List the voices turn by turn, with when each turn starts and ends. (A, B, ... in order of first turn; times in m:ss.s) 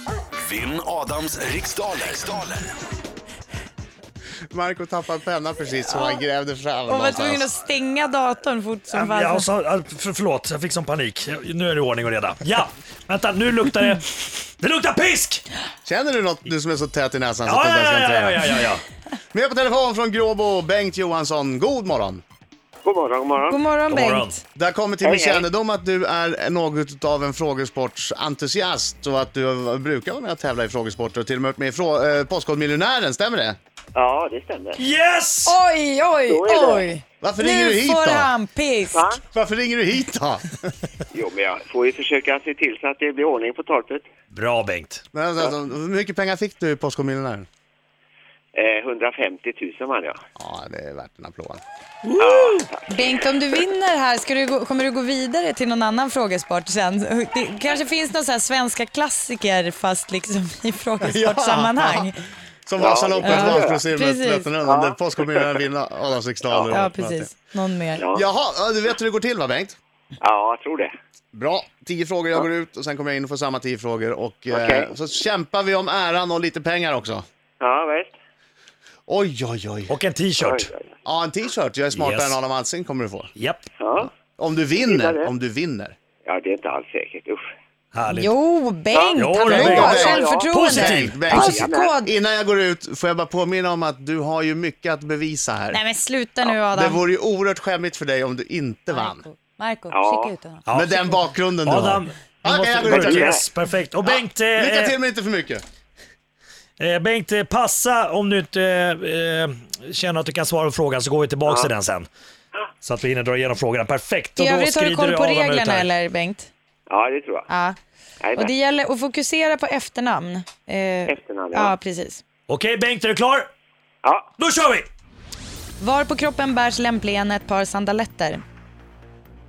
0:00.4-0:02.7 A
0:04.5-0:07.5 B
0:05.8-0:06.2 C
0:06.9-0:09.5 C
0:08.9-0:15.4 D
0:15.8-0:18.4 B
0:17.4-0:18.8 D
0:19.3-0:22.2 B
0:22.8-0:23.6 E
0:23.5-0:24.4 C
0:23.9-0:24.3 D
0:24.5-0:33.6 B
0:25.0-0:25.4 E
0:33.9-0:34.8 E
0:34.8-0:35.6 D
0:35.4-0:39.0 C
0:36.3-0:36.9 E
0:37.2-0:38.3 B
0:38.9-0:39.2 E
0:39.3-0:40.7 B
0:41.1-0:44.0 E
0:44.3-0:45.0 D
0:45.1-0:47.5 B
0:48.5-0:50.2 E
0:50.4-0:51.6 B
0:52.0-0:52.7 D
0:52.2-0:53.2 E
0:52.9-1:02.2 C
1:01.0-1:02.1 B
1:02.6-1:07.3 B
1:02.8-1:03.8 E
1:03.2-1:04.5 C
1:04.6-1:05.6 E
1:06.5-1:06.8 E
1:06.7-1:08.0 C
1:08.0-1:08.2 E
1:08.1-1:09.8 B
1:10.2-1:10.9 E
1:11.3-1:17.2 B
1:14.5-1:14.9 E
1:17.6-1:18.1 E
1:19.1-1:19.9 B
1:19.9-1:20.7 D
1:20.4-1:20.9 E
1:21.0-1:23.3 B
1:21.9-1:22.4 D
1:23.4-1:23.7 D
1:23.8-1:24.1 E
1:24.3-1:26.0 B
1:24.8-1:25.3 E
1:26.2-1:27.4 E
1:27.9-1:28.3 D
1:28.1-1:32.2 C
1:28.9-1:30.5 E
1:29.2-1:31.5 D
1:29.4-1:35.8 B
1:31.3-1:32.0 E
1:35.7-1:37.0 C
1:36.5-1:39.2 B
1:38.9-1:40.7 C
1:39.9-1:40.3 E
1:40.7-1:45.0 D
1:40.7-1:43.4 B
1:42.8-1:43.5 E
1:44.0-1:45.6 B
1:46.8-1:52.1 D
1:52.8-1:55.9 D
1:54.4-1:56.5 C
1:56.9-1:57.5 E
1:57.5-1:57.8 C
1:58.2-1:58.5 E
1:58.3-2:02.2 C
2:01.1-2:01.7 E
2:02.5-2:03.5 D
2:04.0-2:04.3 E
2:04.4-2:04.9 D
2:05.8-2:08.4 C